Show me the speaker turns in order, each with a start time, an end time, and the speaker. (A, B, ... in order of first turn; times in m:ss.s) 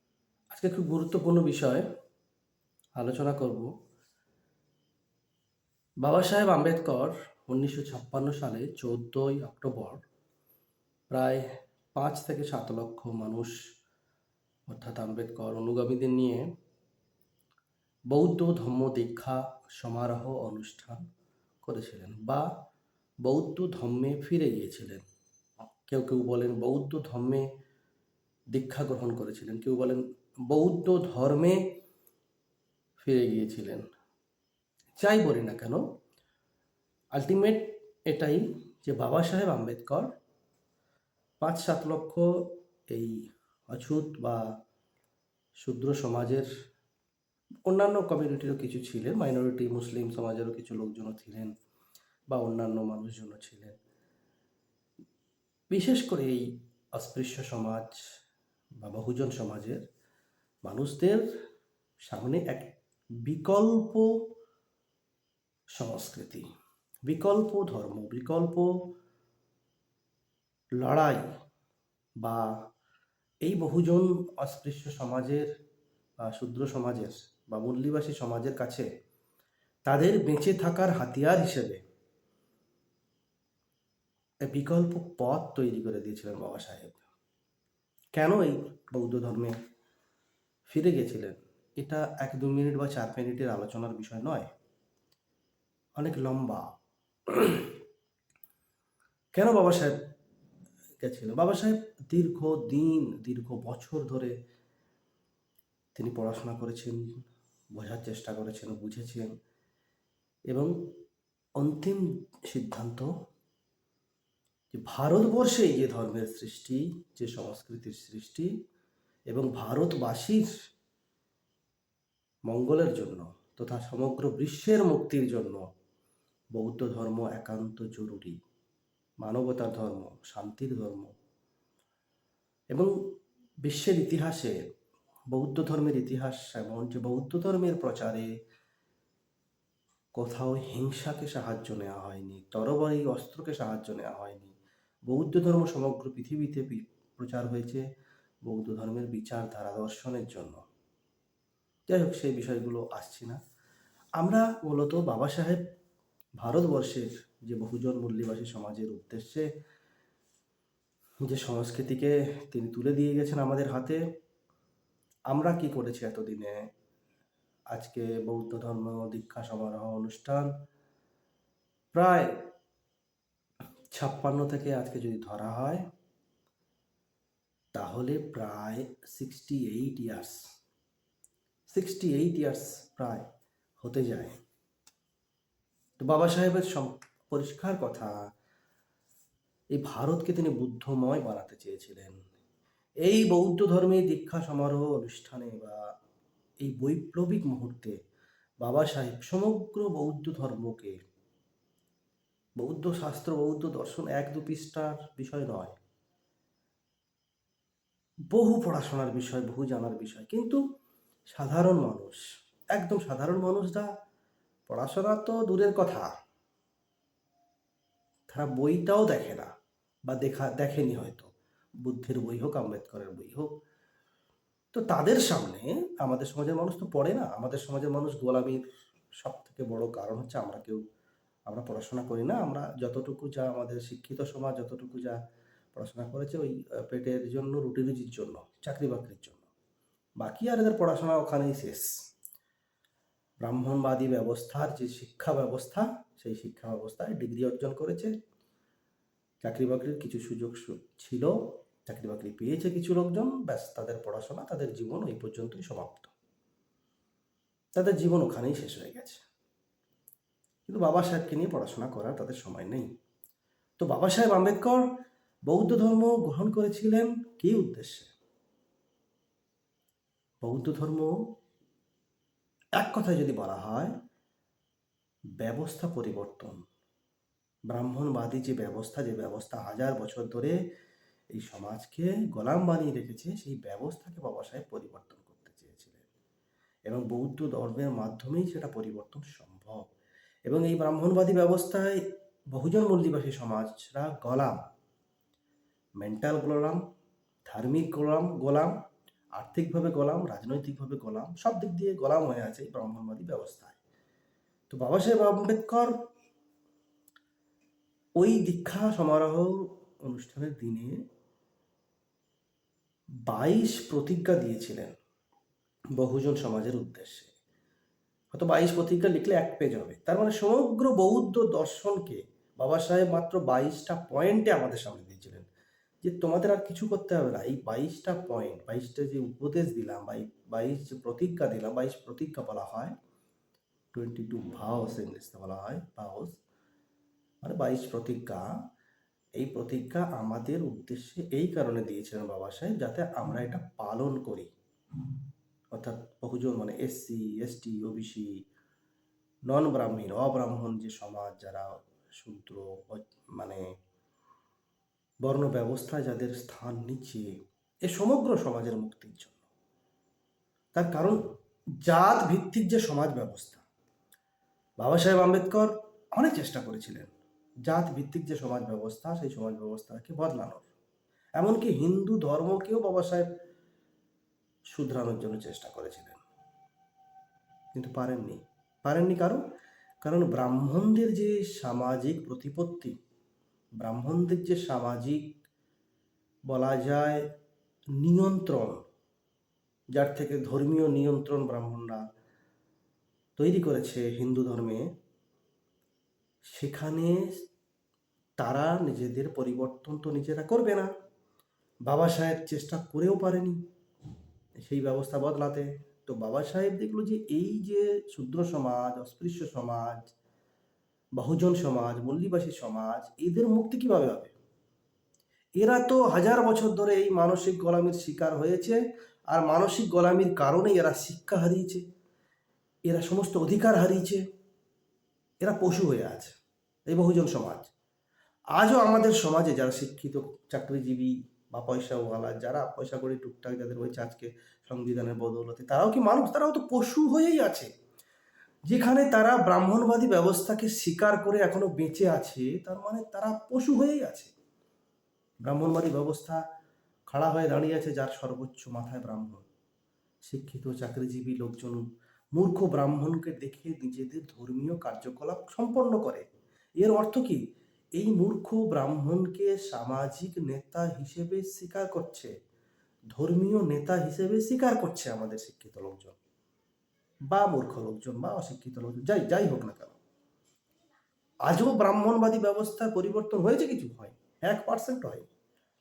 0:00.5-0:01.9 A
0:03.0-0:03.7 A
0:06.0-0:10.0 A
0:11.1-0:11.4 A
0:11.9-0:13.5 A
0:14.7-0:16.4 A
0:18.1-0:21.0 A
0:21.6-0:22.5 A
0:23.2-0:25.0 A
0:25.8-0:27.5 A
0:28.5-0:31.6 A
0:33.0-0:33.9 A
0:35.0-0:35.8 A
0:37.2-0:40.1 A
0:41.4-0:44.5 A
0:45.6-0:46.5 A
0:47.7-0:51.5 A
0:52.3-0:53.8 A
0:55.7-0:58.0 A
0:58.8-0:59.8 A
1:00.7-1:01.2 A
1:02.0-1:04.1 A
1:05.8-1:06.5 A
1:07.1-1:08.7 A
1:10.8-1:11.2 A
1:12.2-1:12.5 A
1:13.4-1:15.5 A
1:16.2-1:18.9 A
1:19.9-1:21.8 A
1:24.5-1:27.0 A
1:28.2-1:29.6 A
1:30.7-1:34.5 A
1:36.0-1:36.7 A
1:37.3-1:37.8 A
1:39.4-1:40.0 A
1:41.0-1:44.4 A
1:46.0-1:47.0 A
1:47.8-1:49.3 A
1:50.5-1:50.8 A
1:51.6-1:53.1 A
1:54.7-1:58.5 A
1:59.3-2:00.5 A
2:02.5-2:05.6 A
2:06.6-2:08.4 A
2:09.2-2:11.1 A
2:13.6-2:14.6 A
2:15.3-2:18.3 A
2:20.2-2:24.6 A
2:25.1-2:27.8 A
2:28.4-2:30.6 A
2:31.9-2:33.4 A
2:34.2-2:35.6 A
2:36.4-2:39.5 A
2:41.2-2:44.0 A
2:45.3-2:46.6 A
2:47.7-2:50.5 A
2:51.9-2:52.5 A
2:53.9-2:55.9 A
2:57.7-3:00.4 A
3:01.7-3:03.3 A
3:03.8-3:04.4 A
3:06.0-3:08.1 A
3:09.7-3:12.2 A
3:13.0-3:15.9 A
3:16.6-3:18.0 A
3:18.6-3:21.0 A
3:22.6-3:25.8 A
3:28.3-3:30.6 A
3:31.3-3:32.2 A
3:32.8-3:33.9 A
3:34.7-3:36.1 A
3:38.3-3:39.5 A
3:40.1-3:41.3 A
3:41.8-3:43.5 A
3:44.7-3:48.6 A
3:49.2-3:50.8 A
3:51.5-3:55.2 A
3:55.8-3:59.4 A
4:00.2-4:01.9 A
4:03.4-4:08.1 A
4:09.4-4:16.1 A
4:17.8-4:19.2 A
4:20.7-4:22.9 A
4:23.8-4:24.9 A
4:25.5-4:28.1 A
4:30.4-4:31.2 A
4:32.8-4:33.9 A
4:35.4-4:36.6 A
4:37.7-4:40.6 A
4:41.3-4:46.0 A
4:46.9-4:49.8 A
4:50.5-4:54.6 A
4:56.0-4:56.8 A
4:57.5-4:58.7 A
4:59.4-5:03.8 A
5:04.7-5:05.9 A
5:08.2-5:11.0 A
5:13.3-5:15.0 A
5:16.0-5:17.3 A
5:18.3-5:25.5 A
5:26.0-5:32.9 A
5:33.9-5:36.4 A
5:37.4-5:38.6 A
5:39.4-5:44.5 A
5:45.7-5:48.3 A
5:49.5-5:53.6 A
5:55.2-5:57.3 A
5:57.9-5:59.4 A
6:00.8-6:01.2 A
6:01.8-6:03.6 A
6:04.8-6:07.1 A
6:07.7-6:10.7 A
6:11.4-6:13.3 A
6:14.7-6:16.2 A
6:17.7-6:19.4 A
6:20.0-6:23.0 A
6:23.8-6:25.4 A
6:26.5-6:27.3 A
6:28.0-6:28.8 A
6:29.9-6:32.0 A
6:33.4-6:34.9 A
6:36.5-6:37.3 A
6:38.4-6:40.9 A
6:41.9-6:43.6 A
6:44.6-6:50.1 A
6:51.2-6:54.3 A
6:55.6-7:01.8 A
7:02.9-7:04.2 A
7:05.4-7:06.4 A
7:06.9-7:07.7 A
7:08.6-7:17.7 A
7:18.7-7:24.3 A
7:25.4-7:26.4 A
7:27.1-7:29.5 A
7:30.3-7:31.8 A
7:32.4-7:36.2 A
7:36.8-7:37.4 A
7:38.0-7:42.3 A
7:43.1-7:46.2 A
7:47.3-7:50.0 A
7:51.5-7:55.3 A